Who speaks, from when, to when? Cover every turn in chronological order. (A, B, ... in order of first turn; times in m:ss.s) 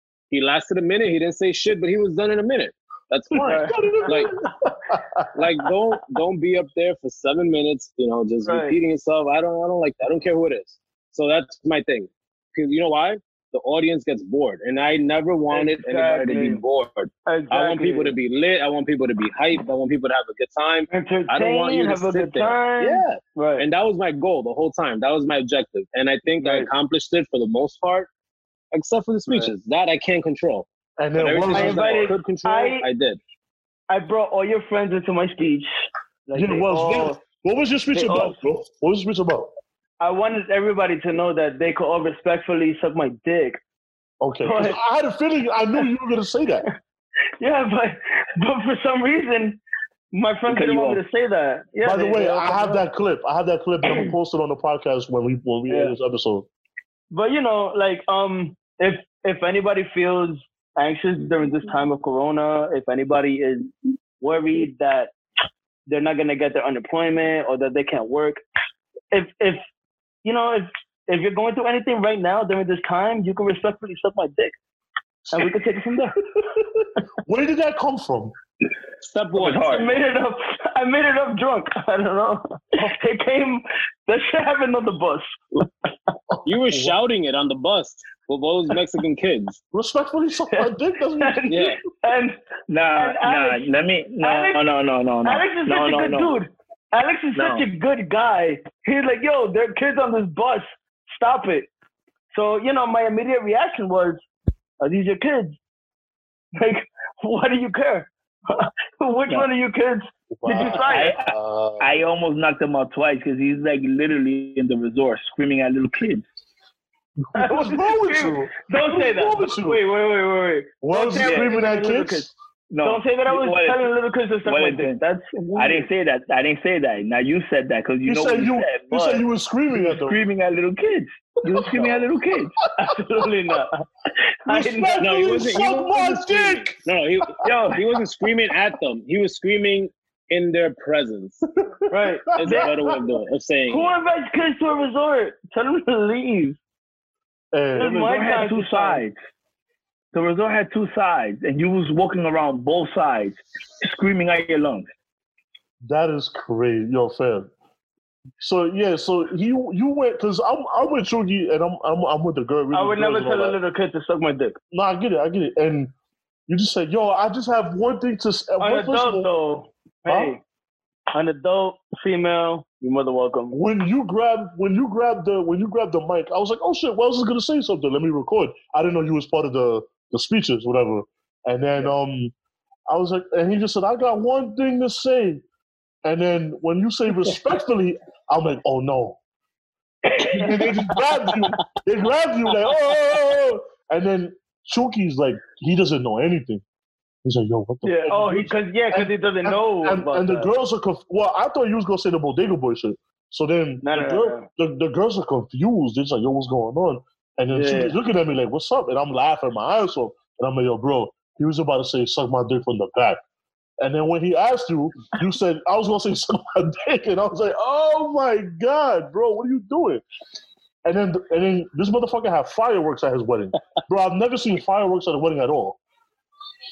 0:00.3-0:04.3 A
0:03.3-0:05.2 B
0:03.4-0:04.2 C
0:05.3-0:28.1 A
0:08.4-0:08.8 C
0:15.5-0:16.6 C
0:17.3-0:18.1 C
0:20.9-0:23.6 C
0:26.4-0:26.7 C
0:28.7-0:33.2 A
0:31.0-0:31.8 B
0:31.5-0:32.8 C
0:33.9-0:35.7 C
0:36.3-0:37.2 C
0:36.3-0:39.5 B
0:37.9-0:38.3 C
0:40.0-0:43.6 C
0:44.2-0:46.7 B
0:44.4-0:44.8 C
0:47.4-0:49.6 C
0:50.1-0:52.8 C
0:50.5-0:51.0 D
0:51.8-0:56.5 B
0:55.7-0:55.9 C
0:57.1-1:05.1 C
1:05.9-1:08.4 C
1:09.1-1:09.6 C
1:10.2-1:14.5 C
1:15.3-1:16.2 C
1:16.4-1:18.3 B
1:19.0-1:19.8 A
1:19.3-1:19.9 D
1:19.5-1:25.4 C
1:26.4-1:29.6 A
1:29.7-1:31.7 B
1:31.2-1:32.4 C
1:31.5-1:31.8 A
1:32.7-1:36.4 D
1:33.0-1:33.6 C
1:34.2-1:34.6 C
1:35.2-1:41.7 C
1:37.3-1:37.6 D
1:42.3-1:44.2 C
1:44.8-1:45.6 C
1:46.6-1:51.1 C
1:50.3-1:51.9 B
1:50.6-1:56.2 D
1:57.2-1:59.8 B
1:57.3-2:02.3 C
2:00.8-2:02.3 B
2:01.2-2:01.5 D
2:02.7-2:03.9 D
2:02.8-2:05.8 C
2:04.4-2:05.0 D
2:05.5-2:12.6 D
2:08.0-2:10.2 B
2:12.8-2:13.7 C
2:14.4-2:15.5 C
2:14.5-2:16.8 B
2:15.0-2:21.4 A
2:17.4-2:17.7 D
2:21.8-2:23.0 B
2:21.9-2:22.7 C
2:22.4-2:23.9 A
2:23.7-2:26.6 C
2:27.5-2:28.1 B
2:27.8-2:29.0 C
2:27.8-2:29.1 D
2:30.1-2:34.9 D
2:35.8-2:37.5 B
2:38.4-2:43.6 B
2:42.7-2:44.6 C
2:44.7-2:45.9 B
2:46.5-2:49.3 B
2:48.6-2:50.4 C
2:50.0-2:50.3 B
2:51.1-2:53.6 C
2:53.5-3:02.3 B
3:02.9-3:05.4 B
3:06.0-3:09.2 B
3:10.2-3:16.6 B
3:10.2-3:10.7 C
3:17.2-3:33.2 B
3:17.8-3:20.5 C
3:23.8-3:24.5 C
3:27.5-3:27.9 C
3:33.8-3:40.0 B
3:40.8-3:45.8 B